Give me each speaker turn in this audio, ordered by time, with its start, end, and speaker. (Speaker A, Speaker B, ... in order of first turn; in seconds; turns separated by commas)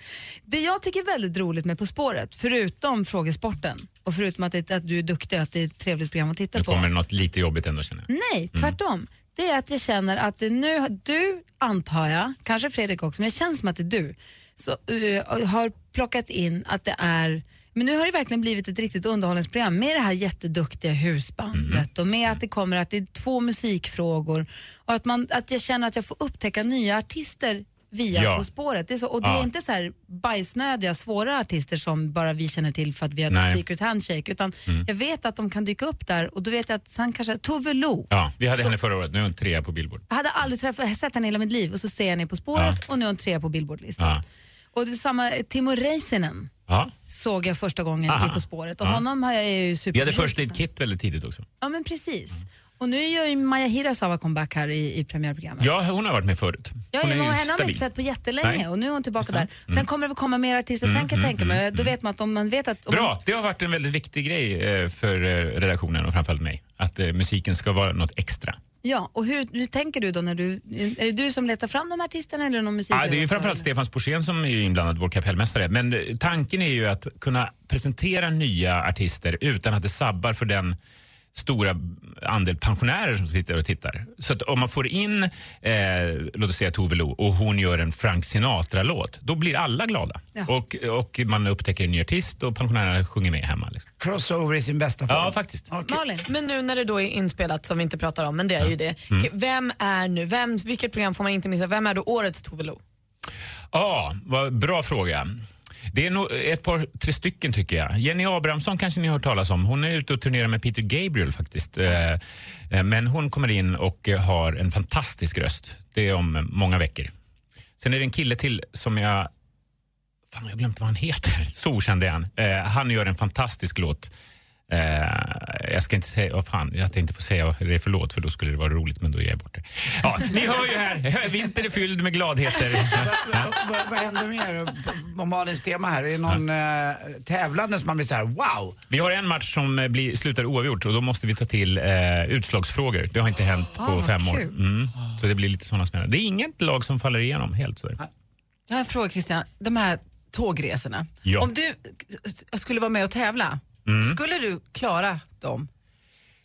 Speaker A: 0.5-6.9, Speaker B: 6.5-8.7, Speaker A: 8.1-38.7, Speaker B: 21.5-21.9, Speaker B: 28.1-28.4, Speaker B: 29.2-29.5, Speaker B: 33.3-33.6, Speaker B: 38.1-40.0, Speaker A: 40.1-44.2, Speaker A: 44.7-46.5, Speaker A: 47.1-50.6, Speaker B: 48.1-49.0, Speaker B: 49.9-51.4, Speaker A: 51.6-55.7, Speaker B: 55.6-57.8, Speaker A: 56.9-63.1, Speaker B: 59.2-59.9, Speaker B: 60.8-61.9, Speaker B: 62.9-68.6, Speaker A: 68.8-73.7, Speaker B: 72.9-80.8, Speaker B: 81.3-93.9, Speaker C: 94.0-96.0, Speaker B: 95.1-95.6, Speaker A: 95.8-96.2, Speaker D: 96.2-102.8, Speaker B: 98.6-99.3, Speaker B: 103.7-105.3, Speaker B: 105.9-117.1, Speaker B: 117.8-119.3, Speaker B: 120.3-124.1, Speaker B: 124.7-133.5, Speaker C: 132.9-138.8, Speaker B: 138.9-148.0, Speaker A: 143.8-144.5, Speaker E: 148.7-155.7, Speaker B: 151.2-151.5, Speaker B: 153.9-154.2